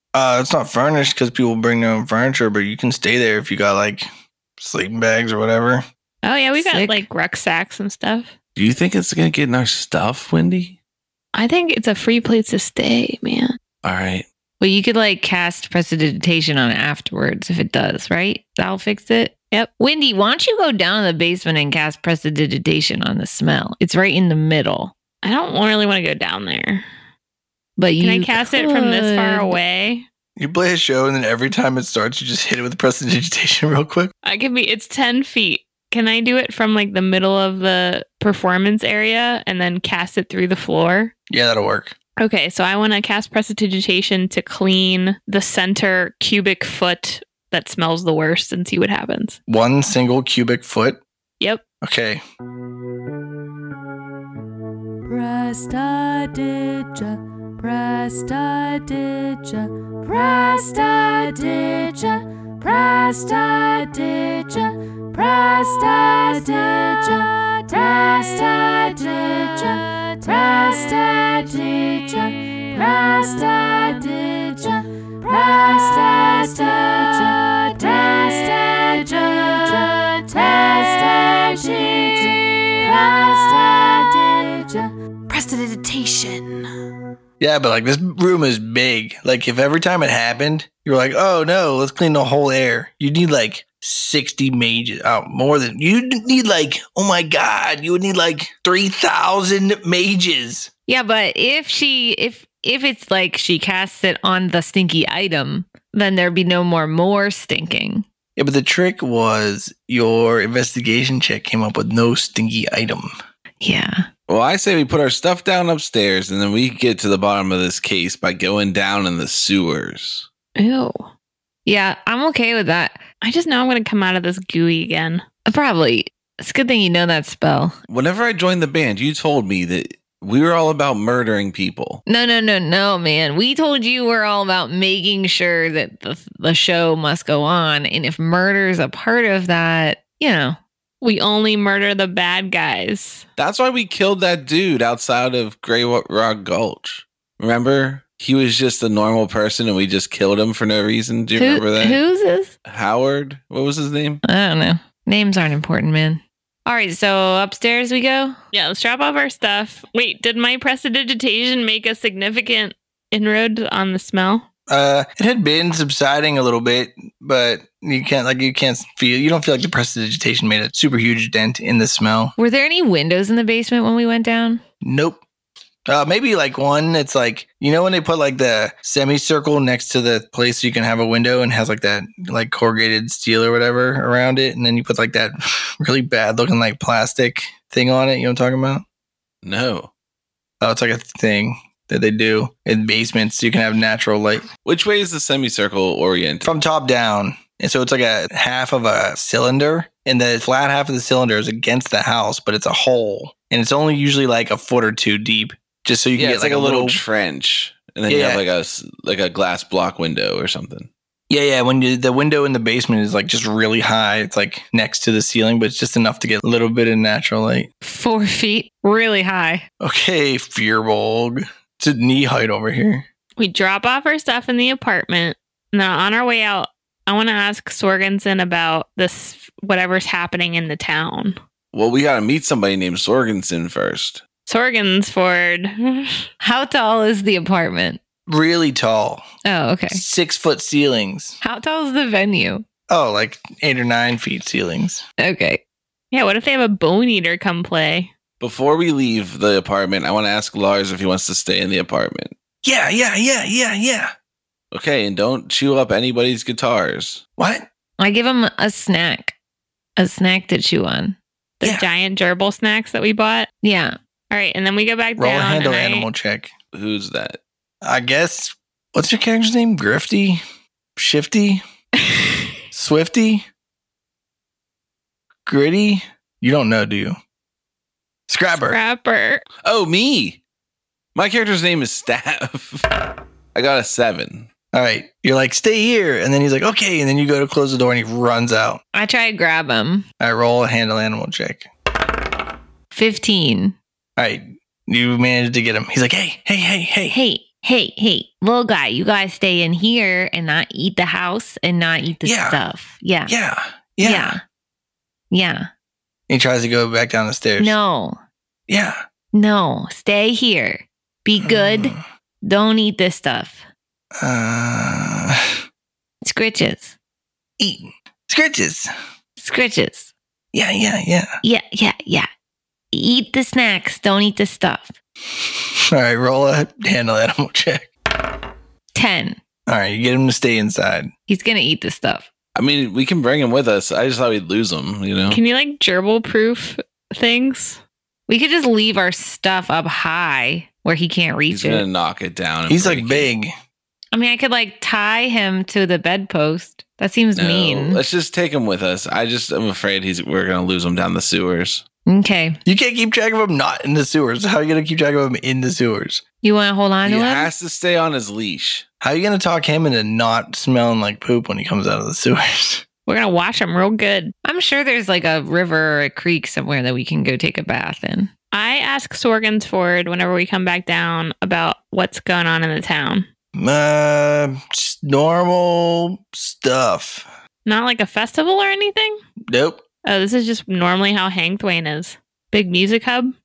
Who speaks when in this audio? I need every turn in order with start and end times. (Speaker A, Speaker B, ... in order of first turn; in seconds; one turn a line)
Speaker A: 0.1-4.1
Speaker A: 4.6-5.8
Speaker B: 6.2-8.3
Speaker C: 6.6-7.0
Speaker D: 8.6-10.8
Speaker B: 11.3-13.6
Speaker D: 13.8-14.3
Speaker C: 14.6-24.9
Speaker B: 25.2-26.9
Speaker C: 27.8-29.6
Speaker B: 28.0-30.1
Speaker A: 30.4-34.1
Speaker B: 34.2-41.1
Speaker A: 41.3-42.0
Speaker B: 42.2-49.4
Speaker A: 49.5-51.0
Speaker A: 51.8-52.2
Speaker E: 55.0-86.7
Speaker A: 87.4-100.7
Speaker C: 100.9-108.0
Speaker A: 108.4-113.1
Speaker C: 113.6-114.1
Speaker D: 114.3-120.3
Speaker B: 120.6-121.1
Speaker C: 121.7-123.0
Speaker B: 123.2-125.2
Speaker C: 125.5-127.8
Speaker D: 127.9-132.0
Speaker C: 132.1-140.6
Speaker B: 141.0-143.2
Speaker D: 143.4-152.0
Speaker C: 151.3-152.5
Speaker D: 152.6-154.2
Speaker C: 154.2-158.4
Speaker B: 158.5-164.4
Speaker A: 164.7-172.3
Speaker C: 172.4-174.6
Speaker A: 174.8-175.2
Speaker A: 175.9-188.8
Speaker D: 189.4-189.9
Speaker A: 190.6-194.4
Speaker D: 194.6-196.5
Speaker A: 196.4-207.0
Speaker D: 206.1-210.9
Speaker A: 208.1-208.4
Speaker A: 211.3-217.7
Speaker C: 217.8-219.7
Speaker A: 219.8-223.1
Speaker B: 223.4-231.4
Speaker D: 231.7-234.2
Speaker B: 234.5-236.3
Speaker C: 236.4-238.0
Speaker A: 238.3-239.2
Speaker C: 239.4-240.0
Speaker A: 239.9-241.4
Speaker C: 241.4-242.6
Speaker A: 242.9-245.0
Speaker C: 245.2-245.6
Speaker B: 246.1-248.1
Speaker D: 248.4-252.3
Speaker A: 252.6-254.1
Speaker D: 254.7-257.2
Speaker A: 257.4-257.7
Speaker C: 258.0-259.4
Speaker C: 260.0-261.2
Speaker B: 261.6-263.5
Speaker C: 263.6-263.9
Speaker B: 264.3-266.1
Speaker A: 265.2-266.5
Speaker D: 266.7-267.4
Speaker A: 267.8-270.4
Speaker A: 270.9-271.6
Speaker B: 272.0-272.4
Speaker A: 272.7-273.4
Speaker A: 275.4-277.2
Speaker A: 278.3-278.8
Speaker B: 278.6-279.4
Speaker D: 279.6-280.4
Speaker D: 281.1-282.9
Speaker D: 283.5-284.5
Speaker A: 284.7-288.8
Speaker C: 288.9-290.1
Speaker A: 290.2-291.7
Speaker C: 292.9-293.8
Speaker A: 294.2-297.2
Speaker C: 297.1-303.3
Speaker A: 302.2-302.6
Speaker A: 303.3-304.4
Speaker C: 304.0-304.4
Speaker C: 305.3-305.7
Speaker A: 306.3-307.8
Speaker C: 307.6-308.2
Speaker A: 308.7-309.0
Speaker C: 309.3-313.7
Speaker A: 311.4-312.0
Speaker A: 314.2-315.4
Speaker C: 316.2-316.9
Speaker A: 317.6-318.9
Speaker C: 319.4-320.1
Speaker A: 320.5-321.4
Speaker C: 321.4-322.3
Speaker C: 322.9-324.9
Speaker A: 325.3-327.9
Speaker C: 328.9-329.4
Speaker A: 329.7-331.1
Speaker C: 331.3-332.3
Speaker D: 332.6-335.4
Speaker B: 335.3-337.8
Speaker C: 338.3-341.9
Speaker D: 341.5-343.3
Speaker A: 342.7-343.5
Speaker C: 344.1-348.0
Speaker D: 347.4-351.8
Speaker C: 352.1-352.6
Speaker A: 352.6-356.2
Speaker C: 356.4-357.5
Speaker D: 357.1-358.9
Speaker A: 359.0-362.8
Speaker B: 363.1-364.3
Speaker C: 364.4-368.3
Speaker B: 368.5-373.3
Speaker A: 373.6-377.3
Speaker B: 377.7-379.2
Speaker A: 379.5-379.8
Speaker B: 380.1-383.3